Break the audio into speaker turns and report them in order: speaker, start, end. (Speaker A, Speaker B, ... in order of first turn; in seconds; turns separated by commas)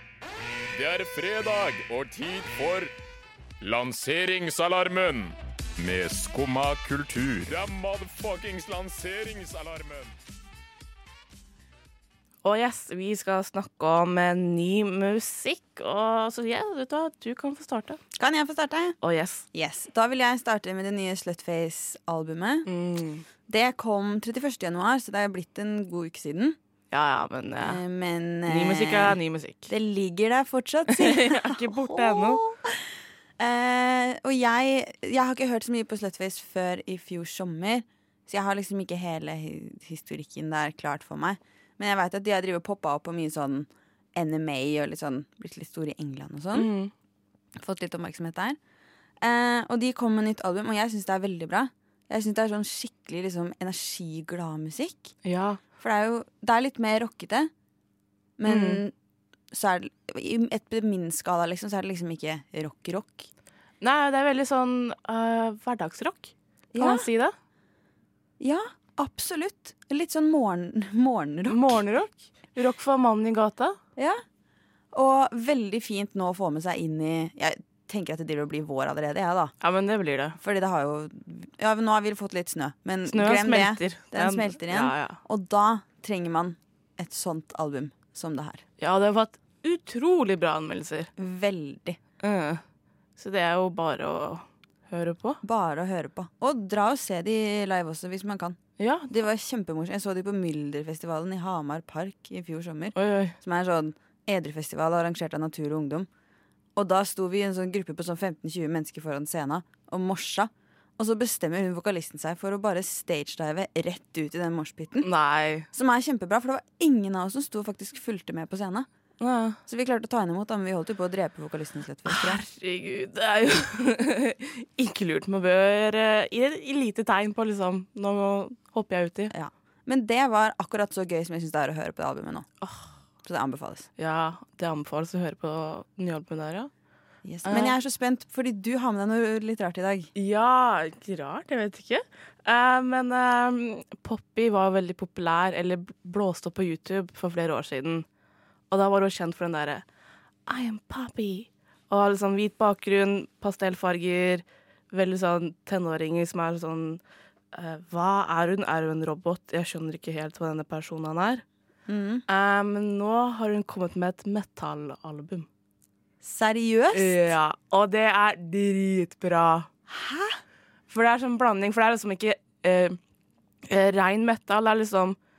Speaker A: 0.7-2.9, Speaker A: 3.6-10.1, Speaker B: 12.4-18.0, Speaker C: 18.1-19.0, Speaker B: 19.0-19.4, Speaker C: 19.5-22.7, Speaker B: 22.6-23.2, Speaker C: 23.5-26.6, Speaker B: 26.9-27.8, Speaker C: 27.6-29.2, Speaker B: 28.4-29.7, Speaker C: 29.7-46.7, Speaker B: 30.9-32.4, Speaker B: 46.5-46.9, Speaker C: 47.6-48.6, Speaker C: 49.2-55.1, Speaker B: 55.2-55.6, Speaker C: 55.8-57.5, Speaker C: 58.4-58.9, Speaker B: 58.5-58.8, Speaker C: 59.5-63.3, Speaker B: 63.8-67.3, Speaker C: 66.7-67.0, Speaker C: 68.4-71.8, Speaker B: 71.5-73.8, Speaker C: 74.0-74.2, Speaker C: 74.9-79.5, Speaker B: 79.6-80.4, Speaker C: 80.4-88.6, Speaker B: 83.1-85.2, Speaker B: 88.8-91.1, Speaker C: 91.2-92.0, Speaker B: 92.2-92.6, Speaker B: 93.2-95.4, Speaker C: 95.4-106.1, Speaker B: 98.8-99.1, Speaker B: 102.9-103.4, Speaker C: 106.8-115.1, Speaker B: 115.0-115.7, Speaker C: 115.7-118.9, Speaker B: 119.2-119.6, Speaker C: 119.7-122.4, Speaker B: 122.1-129.3, Speaker C: 129.3-132.5, Speaker B: 132.6-132.9, Speaker C: 133.2-133.9, Speaker B: 134.0-136.7, Speaker C: 137.2-140.1, Speaker B: 137.4-137.8, Speaker B: 140.1-148.0, Speaker B: 148.7-149.8, Speaker B: 150.5-157.0, Speaker B: 157.5-161.4, Speaker C: 161.9-162.2, Speaker B: 162.3-165.5, Speaker C: 166.2-167.2, Speaker B: 166.9-169.7, Speaker C: 169.9-170.4, Speaker B: 170.9-173.0, Speaker B: 173.6-175.2